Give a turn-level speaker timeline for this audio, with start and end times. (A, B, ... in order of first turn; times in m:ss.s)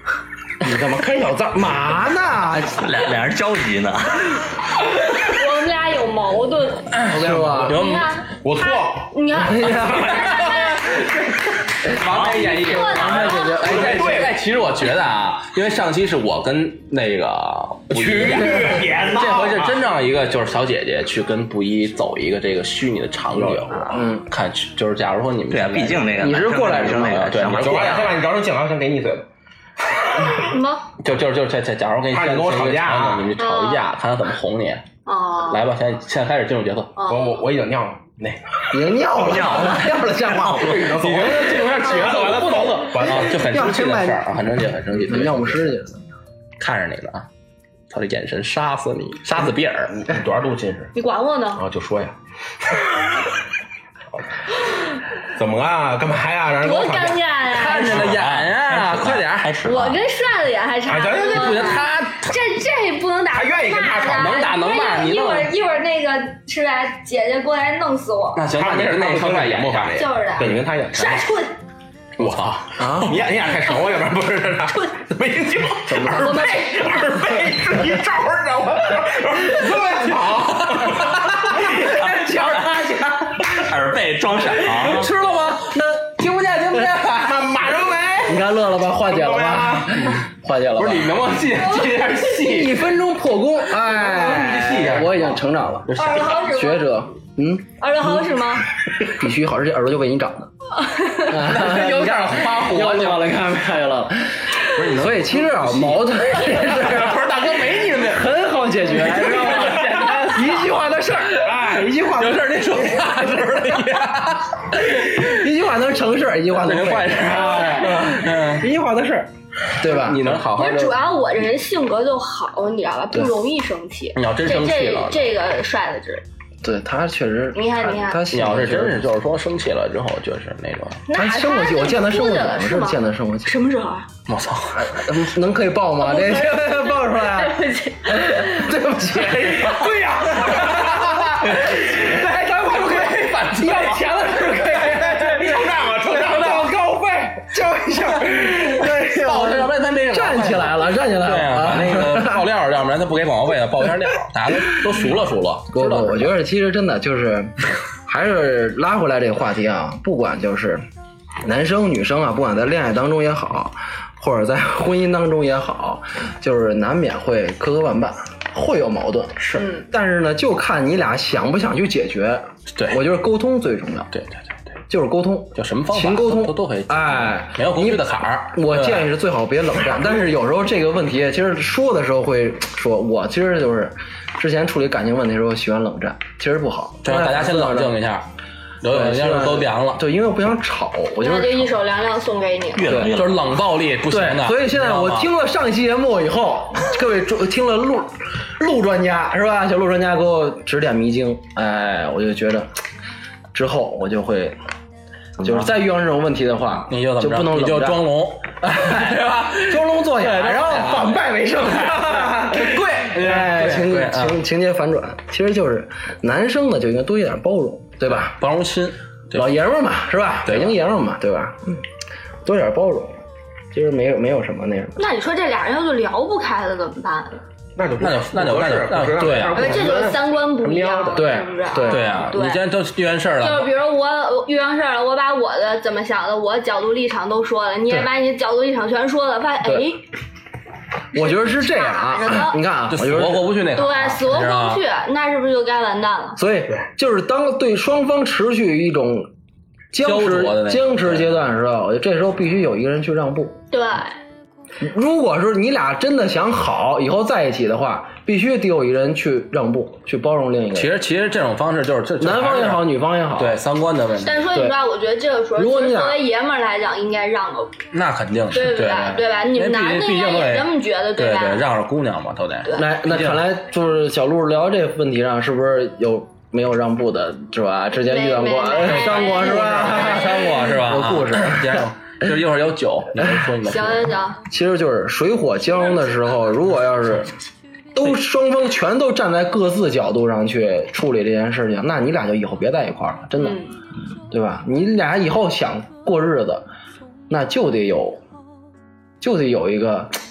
0:00.6-0:02.9 A
0:02.7-0:04.4 B
0:05.2-0:06.9 C
0:06.9-0:08.1 D
0:07.0-0:07.8 A
0:07.2-0:07.7 E
0:07.7-0:11.0 C
0:08.4-0:09.1 E
0:09.3-0:10.1 A
0:09.8-0:10.3 E
0:10.1-0:11.2 D
0:11.8-0:26.2 D
0:12.0-0:12.5 B
0:12.5-0:13.8 C
0:12.6-0:14.3 A
0:13.6-0:14.4 E
0:17.9-0:19.8 E
0:23.3-0:24.0 E
0:23.9-0:24.3 A
0:25.5-0:28.2 B
0:26.2-0:27.4 A
0:26.8-0:28.1 D
0:27.5-0:29.2 E
0:30.4-0:30.9 C
0:31.0-0:34.8 D
0:32.1-0:33.3 E
0:33.4-0:33.9 C
0:35.0-0:35.6 C
0:35.5-0:36.9 D
0:37.0-0:37.4 C
0:37.0-0:38.8 E
0:38.7-0:41.1 A
0:39.2-0:40.8 B
0:40.4-0:43.5 E
0:40.8-0:45.7 D
0:43.1-0:44.4 A
0:44.9-0:46.0 A
0:46.6-0:47.2 D
0:47.9-0:49.9 D
0:49.9-0:50.9 E
0:50.9-0:51.6 C
0:51.6-0:52.2 E
0:55.3-0:58.2 E
0:56.6-0:58.0 C
0:57.5-0:59.5 D
0:58.0-1:00.0 B
0:59.6-1:08.4 C
1:00.8-1:01.8 E
1:01.1-1:02.4 D
1:03.3-1:04.4 E
1:04.1-1:05.5 D
1:08.4-1:10.0 D
1:08.5-1:11.2 E
1:09.9-1:11.6 C
1:12.2-1:21.3 E
1:12.2-1:13.2 D
1:12.8-1:13.1 A
1:15.9-1:16.5 A
1:16.1-1:17.0 C
1:20.7-1:21.0 D
1:21.6-1:22.0 D
1:21.6-1:22.9 A
1:21.9-1:25.1 B
1:24.5-1:27.4 D
1:27.2-1:28.4 E
1:28.3-1:31.3 A
1:29.1-1:30.2 E
1:30.8-1:32.8 D
1:31.5-1:32.3 C
1:32.4-1:38.2 A
1:33.9-1:36.4 D
1:35.9-1:36.8 C
1:37.8-1:38.7 C
1:39.0-1:40.5 A
1:40.8-1:41.3 C
1:41.2-1:47.4 A
1:41.3-1:43.3 D
1:44.7-1:48.3 D
1:48.0-1:53.6 A
1:48.9-1:50.7 D
1:51.4-1:55.3 D
1:54.7-2:00.4 A
1:56.6-1:58.7 D
1:59.8-2:00.9 D
2:00.5-2:06.2 C
2:04.2-2:05.3 D
2:06.6-2:09.0 A
2:07.5-2:08.2 C
2:08.3-2:11.0 D
2:11.1-2:14.1 C
2:11.1-2:13.5 A
2:14.3-2:14.9 D
2:14.7-2:32.5 A
2:16.0-2:18.7 C
2:19.8-2:25.2 D
2:25.1-2:26.7 E
2:26.1-2:26.8 D
2:28.8-2:36.3 D
2:35.7-2:37.5 A
2:38.0-2:40.8 A
2:41.4-2:54.1 A
2:49.6-2:49.8 C
2:54.1-2:54.6 D
2:54.9-3:08.0 A
2:55.6-2:59.1 D
3:07.0-3:08.2 D
3:08.8-3:10.0 D
3:08.8-3:11.7 A
3:11.2-3:13.0 C
3:12.8-3:13.5 B
3:12.8-3:13.1 A
3:13.1-3:15.3 D
3:14.1-3:22.7 A
3:23.5-3:24.6 A
3:25.4-3:28.0 A
3:26.9-3:31.2 D
3:28.6-3:38.4 A
3:31.9-3:34.4 D
3:38.1-3:39.4 D
3:39.3-3:41.8 A
3:40.5-3:40.8 D
3:42.4-3:45.0 A
3:45.0-3:47.4 C
3:47.8-3:51.4 E
3:48.0-3:49.9 D
3:49.5-3:52.6 C
3:51.1-3:52.3 A
3:51.9-3:53.7 D
3:53.4-4:00.0 C
3:59.6-3:59.9 A
4:01.1-4:02.6 C
4:01.1-4:03.6 A
4:02.9-4:04.8 D
4:03.7-4:06.4 C
4:06.4-4:09.3 A
4:09.9-4:13.6 A
4:10.0-4:11.2 D
4:13.7-4:14.2 C
4:14.8-4:20.9 A
4:20.7-4:24.4 D
4:22.2-4:23.6 A
4:24.2-4:27.7 C
4:25.6-4:26.2 A
4:27.9-4:33.4 D
4:28.5-4:31.6 C
4:32.7-4:41.8 A
4:38.0-4:40.7 C
4:38.8-4:44.1 D
4:43.2-4:43.5 A
4:43.6-4:44.4 C
4:44.5-4:47.3 A
4:47.9-4:53.6 A
4:53.4-4:53.8 C
4:54.3-4:56.6 A
4:57.3-4:58.2 A
4:59.2-5:00.1 A